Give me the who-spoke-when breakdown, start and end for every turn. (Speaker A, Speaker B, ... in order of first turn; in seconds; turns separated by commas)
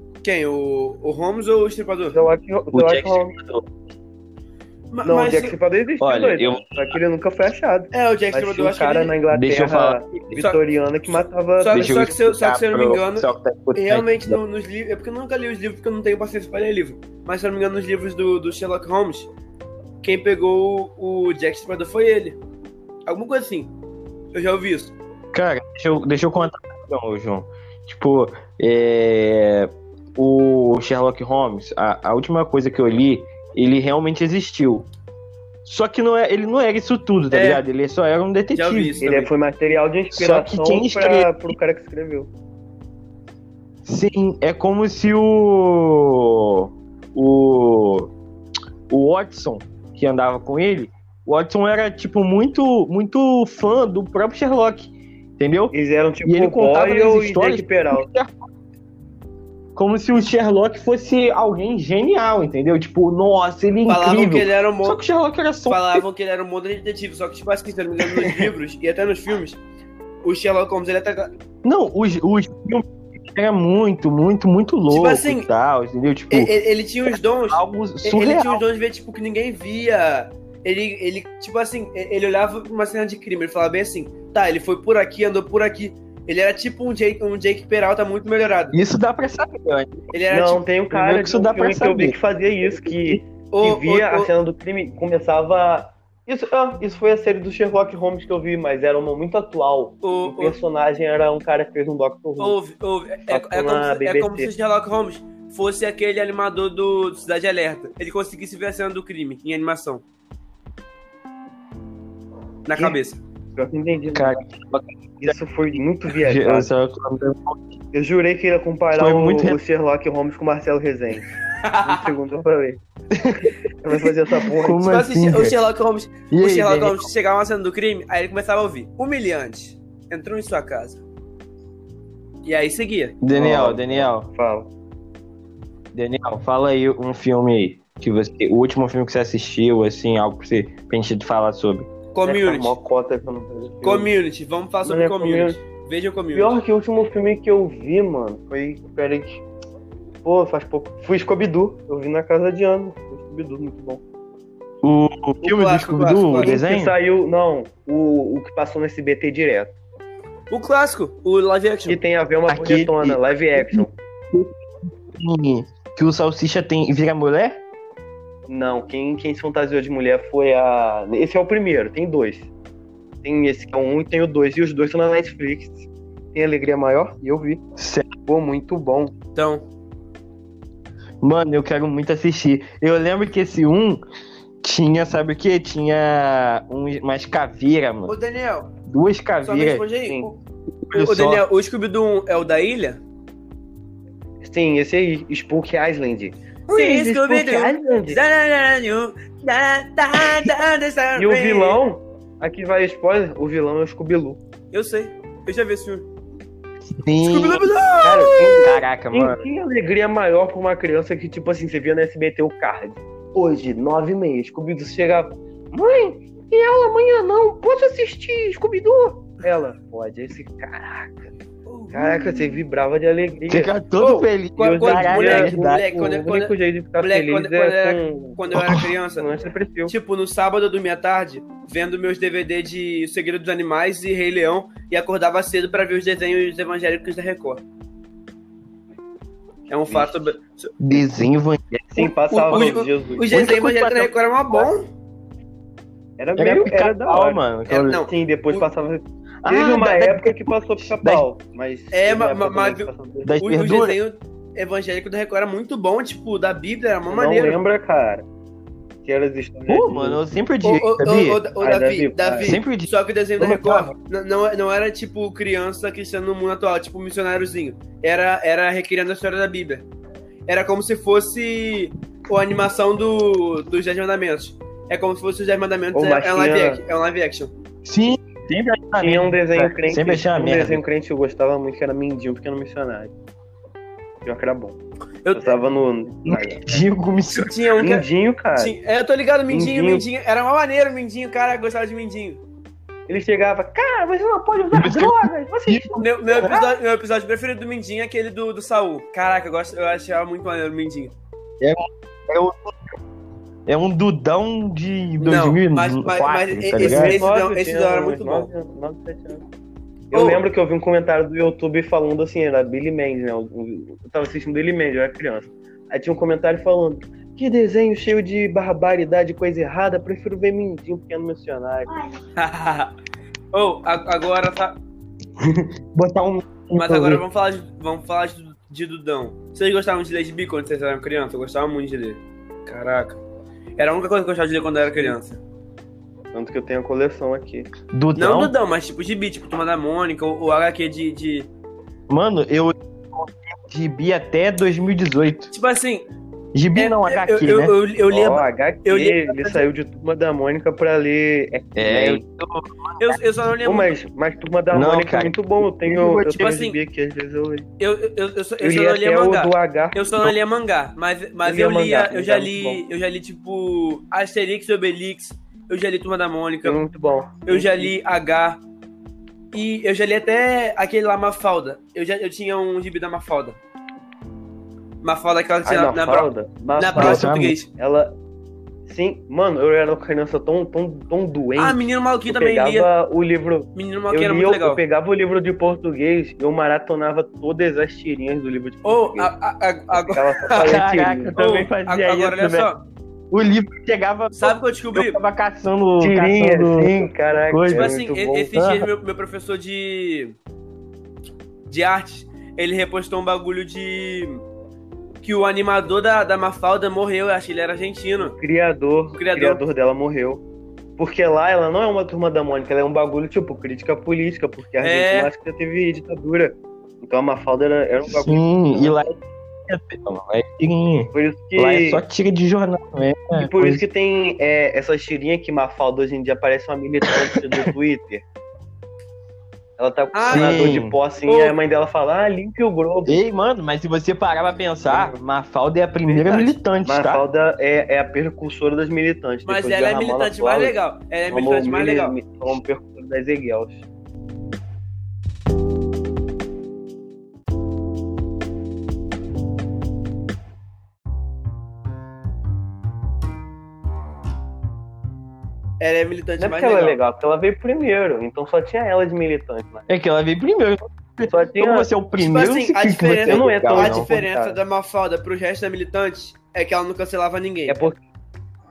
Speaker A: 0.2-2.2, Speaker B: 2.1-3.4, Speaker C: 2.7-3.7, Speaker A: 4.9-5.5, Speaker B: 5.0-12.1, Speaker C: 6.0-7.0, Speaker A: 7.9-9.2, Speaker C: 9.3-10.4, Speaker A: 11.6-19.3, Speaker C: 11.7-14.4, Speaker A: 20.0-22.4, Speaker A: 23.1-23.7, Speaker A: 24.3-24.9, Speaker C: 25.3-34.9, Speaker C: 35.6-39.0, Speaker A: 37.3-37.6, Speaker A: 38.5-39.3, Speaker B: 39.0-42.3, Speaker C: 40.1-41.5, Speaker C: 43.8-48.1, Speaker C: 48.9-55.7, Speaker B: 55.7-58.1, Speaker C: 56.2-58.3, Speaker C: 59.7-66.0, Speaker A: 63.9-65.0, Speaker A: 65.7-69.6, Speaker C: 68.0-68.5, Speaker A: 70.2-71.3, Speaker C: 71.6-76.5, Speaker A: 74.9-75.5, Speaker A: 76.3-88.8, Speaker C: 77.1-78.6, Speaker C: 88.7-90.2, Speaker A: 90.1-90.6, Speaker B: 90.3-102.5, Speaker C: 90.9-92.2, Speaker C: 92.7-93.2, Speaker A: 93.5-94.3, Speaker A: 100.0-100.6, Speaker A: 102.4-110.0, Speaker B: 103.3-104.5, Speaker A: 112.7-113.2, Speaker B: 113.5-114.5, Speaker C: 114.1-115.3, Speaker B: 115.2-116.7, Speaker C: 116.1-117.6, Speaker B: 117.9-121.3, Speaker C: 118.9-119.6, Speaker A: 121.6-122.0, Speaker B: 121.8-122.8, Speaker C: 123.1-123.6, Speaker B: 123.8-124.8, Speaker C: 124.5-125.6, Speaker A: 124.8-131.0, Speaker C: 126.3-127.1, Speaker A: 132.4-133.2, Speaker C: 133.2-134.3, Speaker B: 133.3-134.7, Speaker C: 135.9-141.9, Speaker A: 142.1-142.8, Speaker B: 142.2-144.1, Speaker A: 143.8-146.6, Speaker B: 144.8-145.6, Speaker B: 146.3-149.4, Speaker B: 150.2-154.0, Speaker C: 154.8-156.9, Speaker A: 155.4-156.5, Speaker B: 156.4-159.7, Speaker A: 160.5-162.0, Speaker B: 161.8-163.9, Speaker C: 162.5-167.6, Speaker B: 168.5-172.5, Speaker B: 173.2-177.6, Speaker C: 177.8-178.1, Speaker B: 178.2-179.1, Speaker A: 179.3-179.6, Speaker C: 181.2-184.0, Speaker C: 184.6-188.2, Speaker A: 188.1-188.7, Speaker C: 188.9-189.8, Speaker A: 189.4-190.4, Speaker B: 190.1-190.3, Speaker C: 190.9-191.5, Speaker A: 190.9-193.0, Speaker B: 194.4-198.2, Speaker A: 196.7-201.8, Speaker B: 201.2-204.4, Speaker A: 204.7-206.1, Speaker C: 207.0-207.7, Speaker A: 207.2-208.7, Speaker B: 208.0-221.3, Speaker C: 208.6-209.5, Speaker A: 221.7-222.6, Speaker B: 221.9-223.8, Speaker C: 223.5-226.2, Speaker A: 224.0-237.6, Speaker B: 224.6-228.4, Speaker C: 228.5-228.9, Speaker B: 229.2-229.9, Speaker A: 239.7-240.7, Speaker B: 239.8-240.3, Speaker C: 240.8-242.7, Speaker B: 241.9-243.5, Speaker A: 242.3-244.9, Speaker C: 243.3-244.1, Speaker B: 246.2-253.4, Speaker C: 246.4-248.1, Speaker A: 247.7-248.7, Speaker C: 249.4-251.2, Speaker A: 251.9-252.9, Speaker C: 253.2-254.0, Speaker A: 253.4-257.6, Speaker B: 257.1-258.2, Speaker B: 259.0-260.2, Speaker C: 259.7-261.4, Speaker A: 260.6-269.8, Speaker B: 261.6-262.5, Speaker C: 262.4-263.9, Speaker A: 270.5-277.5, Speaker B: 275.9-276.8, Speaker C: 277.8-280.8, Speaker B: 279.0-283.1, Speaker B: 284.2-284.8, Speaker A: 285.2-285.6, Speaker B: 285.3-286.8, Speaker C: 286.2-287.8, Speaker A: 287.3-292.4, Speaker B: 287.8-288.8, Speaker B: 289.5-290.0, Speaker B: 293.1-296.6, Speaker C: 294.7-296.6, Speaker A: 296.0-301.1, Speaker C: 301.6-302.9, Speaker C: 303.6-307.2, Speaker A: 305.2-308.5, Speaker B: 306.8-309.4, Speaker B: 310.1-321.9, Speaker A: 310.1-310.4, Speaker A: 322.3-322.9, Speaker A: 323.5-324.8, Speaker C: 325.4-327.2, Speaker A: 326.7-333.2, Speaker A: 333.8-335.4, Speaker B: 336.3-337.7, Speaker C: 337.9-338.5, Speaker A: 338.1-341.5, Speaker C: 342.1-345.5, Speaker A: 345.5-346.1, Speaker C: 346.5-347.8, Speaker A: 346.7-349.6, Speaker B: 348.1-352.2, Speaker C: 351.8-353.2, Speaker A: 353.0-353.9, Speaker B: 353.6-357.7, Speaker C: 354.7-355.4, Speaker C: 355.9-356.6, Speaker A: 356.4-356.8, Speaker A: 357.8-366.8, Speaker B: 358.6-360.1, Speaker B: 361.4-362.8, Speaker B: 366.6-367.9, Speaker A: 367.4-368.6, Speaker A: 369.5-373.6, Speaker A: 375.0-377.7, Speaker B: 375.6-378.1, Speaker C: 376.9-377.6, Speaker B: 378.9-389.3, Speaker A: 381.6-382.9, Speaker A: 383.7-384.8, Speaker A: 388.8-390.8, Speaker B: 389.9-391.4, Speaker C: 390.6-392.7, Speaker A: 391.4-392.8, Speaker C: 393.3-397.9, Speaker A: 394.3-395.2, Speaker B: 396.0-398.5, Speaker A: 397.7-400.4, Speaker C: 398.5-398.9, Speaker A: 401.7-404.4, Speaker A: 405.2-408.4, Speaker B: 408.2-410.4, Speaker A: 409.2-409.6, Speaker B: 411.0-419.1, Speaker A: 414.8-415.3, Speaker C: 418.1-423.8, Speaker B: 421.1-422.0, Speaker B: 423.4-428.2, Speaker C: 427.1-427.6, Speaker B: 429.8-433.2, Speaker A: 430.1-430.7, Speaker C: 430.2-430.9, Speaker A: 431.3-431.6, Speaker C: 433.1-437.2, Speaker B: 434.9-435.2, Speaker A: 436.1-436.5, Speaker B: 436.8-440.7, Speaker A: 439.4-442.2, Speaker B: 441.3-443.8, Speaker A: 455.8-457.0, Speaker B: 456.4-459.9, Speaker C: 459.9-464.1, Speaker B: 461.3-461.9, Speaker A: 462.2-467.8, Speaker B: 463.2-464.6, Speaker B: 467.7-468.0